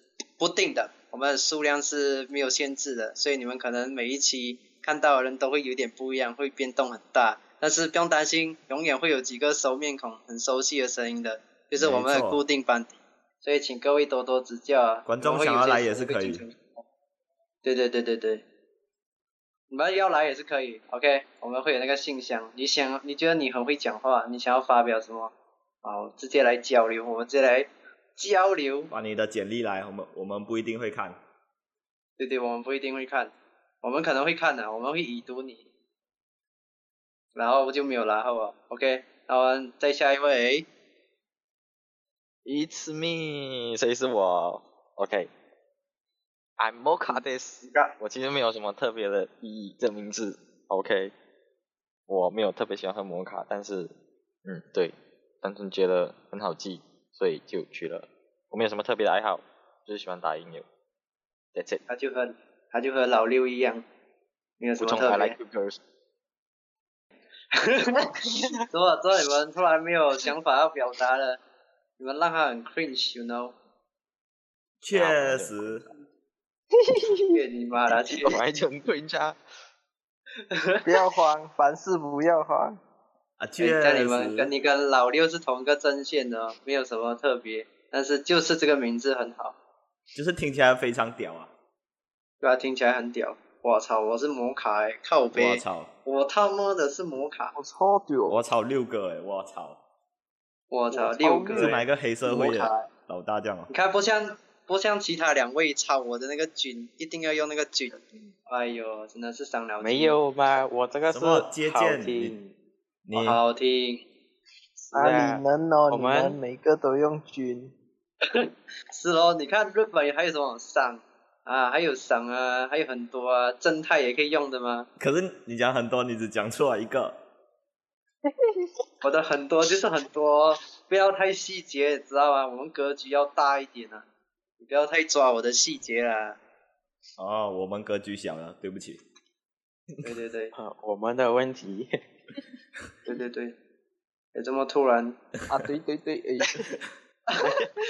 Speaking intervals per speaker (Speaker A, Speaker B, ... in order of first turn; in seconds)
Speaker A: 0.4-16.8, 17.6-18.4, 19.7-25.3, 25.8-28.9, 32.2-35.7, 37.4-40.7, 47.1-47.9, 61.9-63.9, 64.6-65.4, 67.5-71.4, 72.0-73.5, 77.3-78.4, 80.5-80.8, 83.6-89.5, 92.4-97.5, 100.7-102.9, 103.7-110.2, 113.1-114.0, 118.3-124.9, 129.0-134.0, 134.6-136.4, 140.0-140.5, 143.1-143.6, 144.3-145.2, 147.3-147.6
Speaker B: 11.8-12.4, 15.1-16.4, 28.9-31.2, 74.8-75.8, 83.4-84.5, 90.1-91.5, 95.3-95.9, 98.3-99.8, 101.5-103.7, 111.1-112.3, 113.1-113.4, 125.0-127.2, 137.2-139.0
Speaker C: 42.5-45.3, 46.6-51.1, 52.1-53.9, 54.5-60.7, 61.5-61.8, 64.8-65.8, 74.9-75.7, 78.2-79.4
Speaker D: 76.8-77.4, 80.8-82.8, 97.5-98.4, 100.9-101.8, 114.9-117.7, 145.5-146.8
Speaker E: 109.8-112.5, 114.8-116.4, 140.6-141.9